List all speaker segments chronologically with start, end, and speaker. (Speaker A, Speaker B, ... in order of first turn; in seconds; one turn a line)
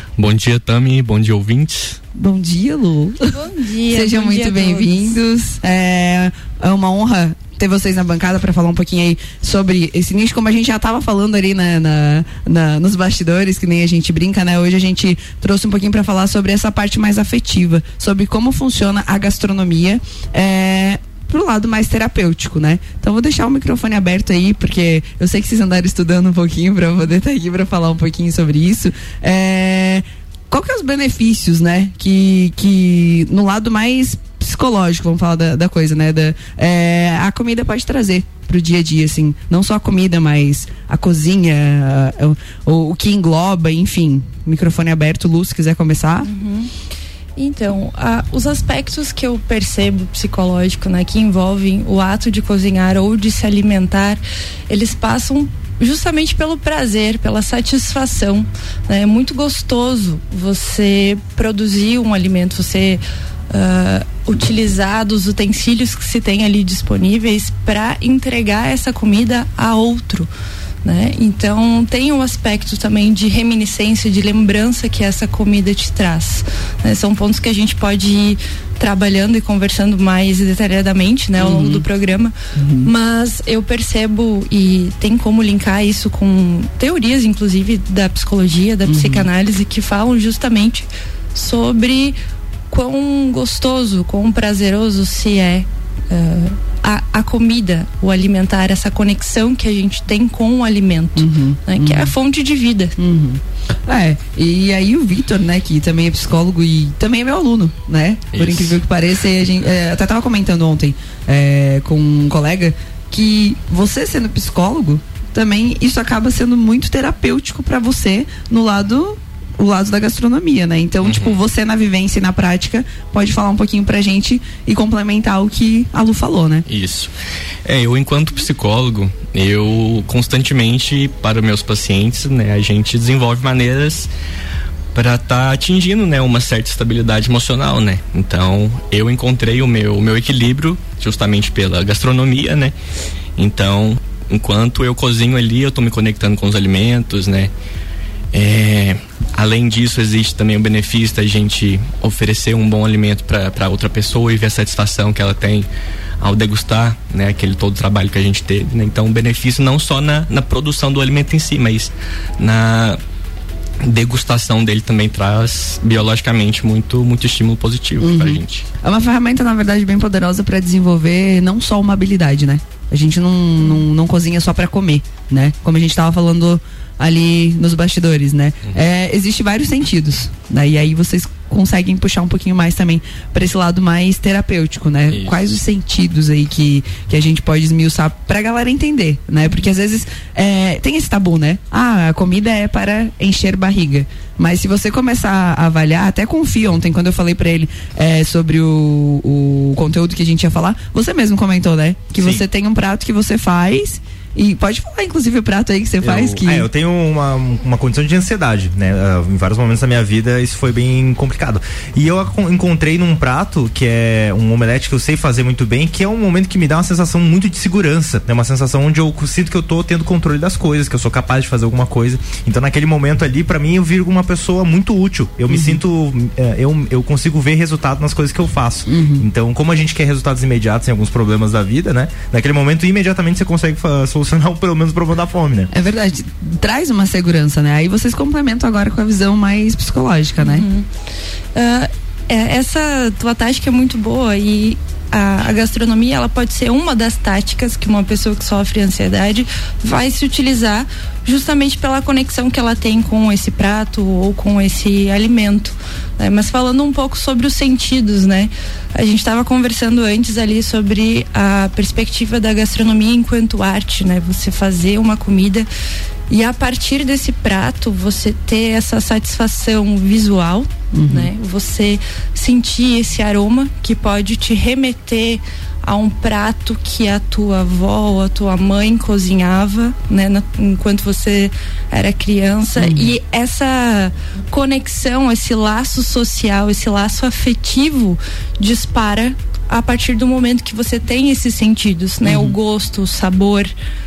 Speaker A: 0.2-2.0
Speaker B: 2.1-3.3
Speaker C: 3.3-5.2
Speaker B: 3.9-46.3
Speaker C: 46.2-46.7
Speaker C: 47.4-70.3
Speaker C: 70.8-92.2
Speaker B: 81.4-81.8
Speaker B: 82.5-82.9
Speaker B: 88.8-89.3
Speaker C: 92.7-103.0
Speaker B: 101.2-102.1
Speaker B: 103.0-126.7
Speaker A: 108.3-108.8
Speaker A: 121.0-121.4
Speaker A: 126.7-127.1
Speaker A: 127.6-134.1
Speaker A: 134.9-142.7
Speaker A: 143.4-147.5
Speaker A: 148.3-155.7
Speaker A: 156.2-163.0
Speaker A: 163.8-168.7
Speaker B: 168.0-206.7
Speaker A: 185.1-185.4
Speaker D: 202.2-202.4
Speaker D: 206.0-235.7
Speaker B: 225.5-225.8
Speaker B: 228.9-229.3
Speaker B: 235.7-240.7
Speaker C: 240.4-240.9
Speaker C: 241.5-265.7
Speaker C: 266.3-293.7
Speaker B: 270.9-271.3
Speaker B: 282.8-283.1
Speaker B: 292.2-292.5